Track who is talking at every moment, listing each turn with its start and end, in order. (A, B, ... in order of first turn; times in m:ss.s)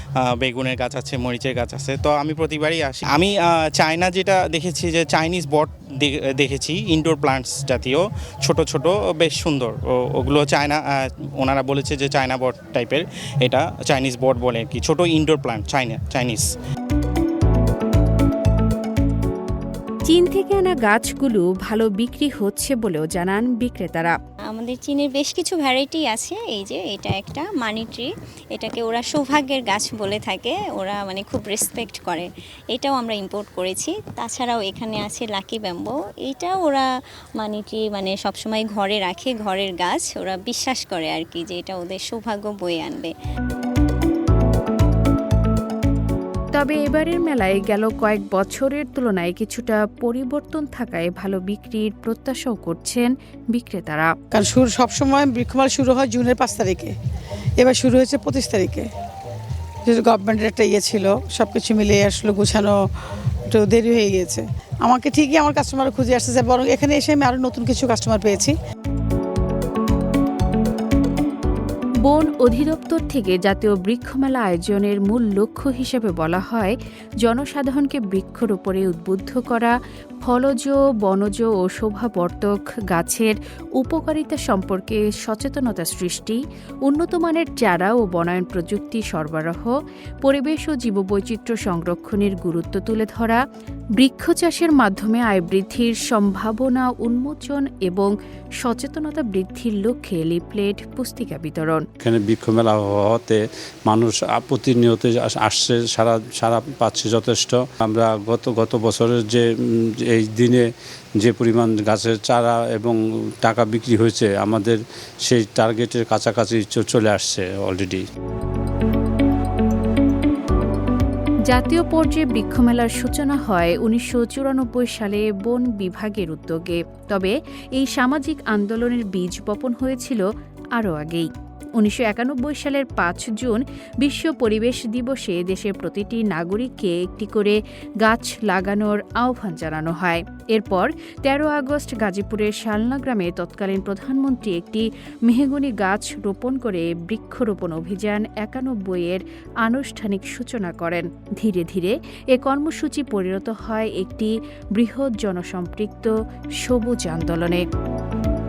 0:00.2-0:16.5 A
0:20.1-0:24.2 B
0:24.5-0:36.9 C
0:37.4-0:43.1 C
0:46.5-0:54.1 B
0:54.3-0:56.9 D
0:57.6-0:58.9 D
0:59.8-1:02.8 D
1:03.5-1:08.5 D
1:12.0-1:29.7 B
1:30.2-1:33.4 B
1:34.0-1:41.8 B
1:42.0-1:49.4 E
1:50.0-1:50.6 E
1:51.2-1:58.0 E
2:01.5-2:10.2 B
2:10.8-2:37.6 B